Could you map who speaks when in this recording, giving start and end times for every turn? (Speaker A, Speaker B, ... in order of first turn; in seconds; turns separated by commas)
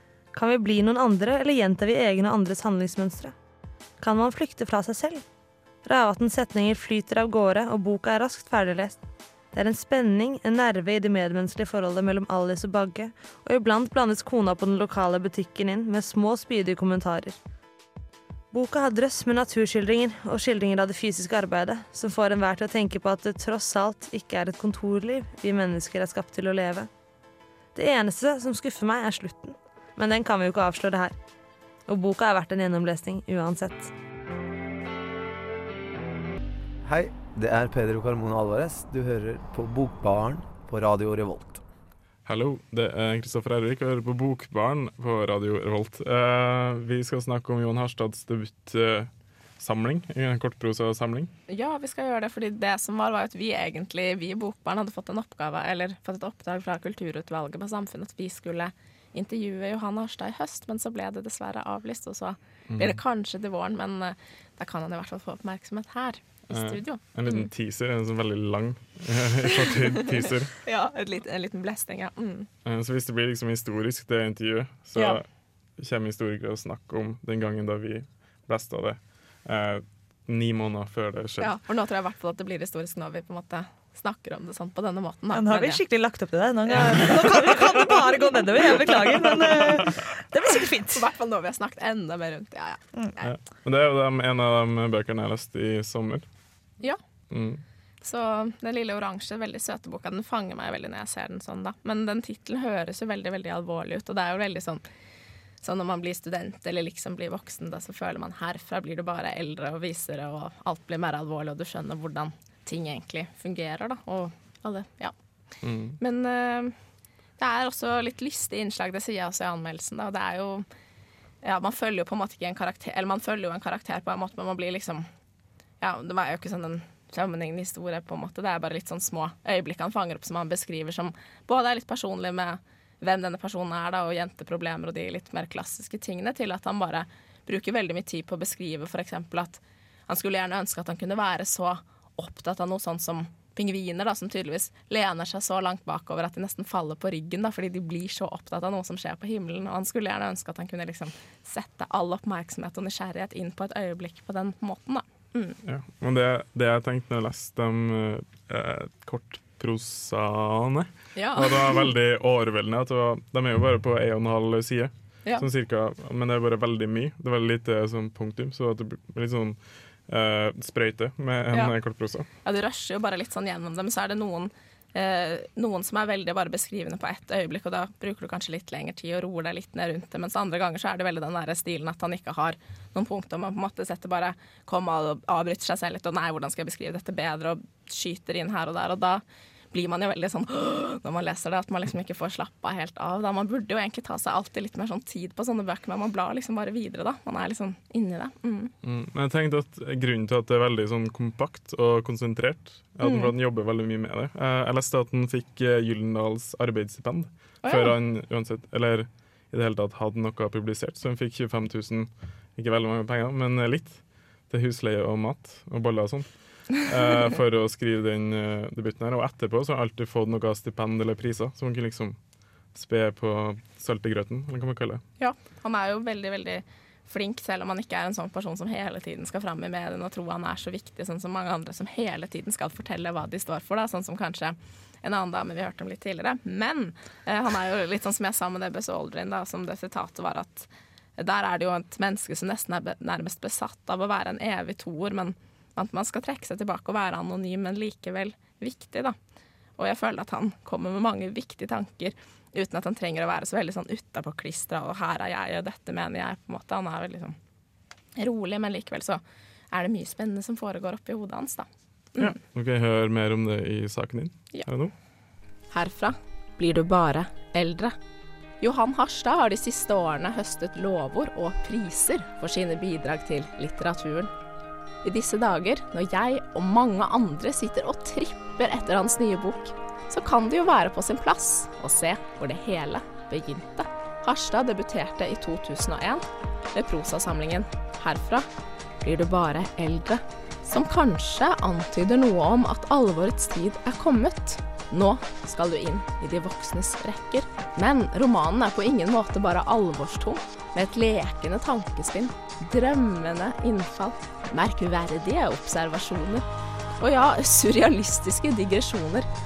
Speaker A: 0.3-3.3, Speaker A: 4.0-5.2, Speaker A: 5.8-9.0, Speaker A: 9.5-17.4, Speaker A: 18.5-26.9, Speaker A: 27.8-31.2, Speaker A: 31.9-33.9, Speaker B: 36.8-41.6, Speaker C: 42.3-51.3, Speaker D: 51.5-67.5, Speaker C: 62.7-63.0, Speaker C: 66.5-70.5, Speaker D: 69.7-70.1, Speaker D: 70.7-72.5, Speaker C: 72.7-75.2, Speaker D: 75.0-75.2, Speaker C: 75.8-81.5, Speaker D: 81.4-85.8, Speaker E: 85.3-91.0, Speaker D: 86.7-87.9, Speaker D: 90.9-93.3, Speaker C: 93.2-96.2, Speaker C: 97.3-97.6, Speaker D: 98.0-104.8, Speaker D: 105.6-115.2, Speaker C: 115.6-116.0, Speaker D: 116.0-116.8, Speaker D: 117.4-120.7, Speaker D: 121.4-125.1, Speaker D: 125.8-155.6, Speaker C: 155.6-172.3, Speaker D: 161.2-161.9, Speaker D: 172.4-198.7, Speaker C: 198.8-222.2, Speaker D: 203.0-203.3, Speaker D: 207.6-208.0, Speaker C: 222.7-225.0, Speaker D: 225.2-249.2, Speaker D: 249.8-257.4, Speaker D: 258.2-259.2, Speaker D: 259.7-262.4, Speaker C: 262.2-264.9, Speaker D: 265.7-268.0, Speaker D: 268.6-274.3, Speaker D: 275.0-288.5, Speaker D: 289.0-309.3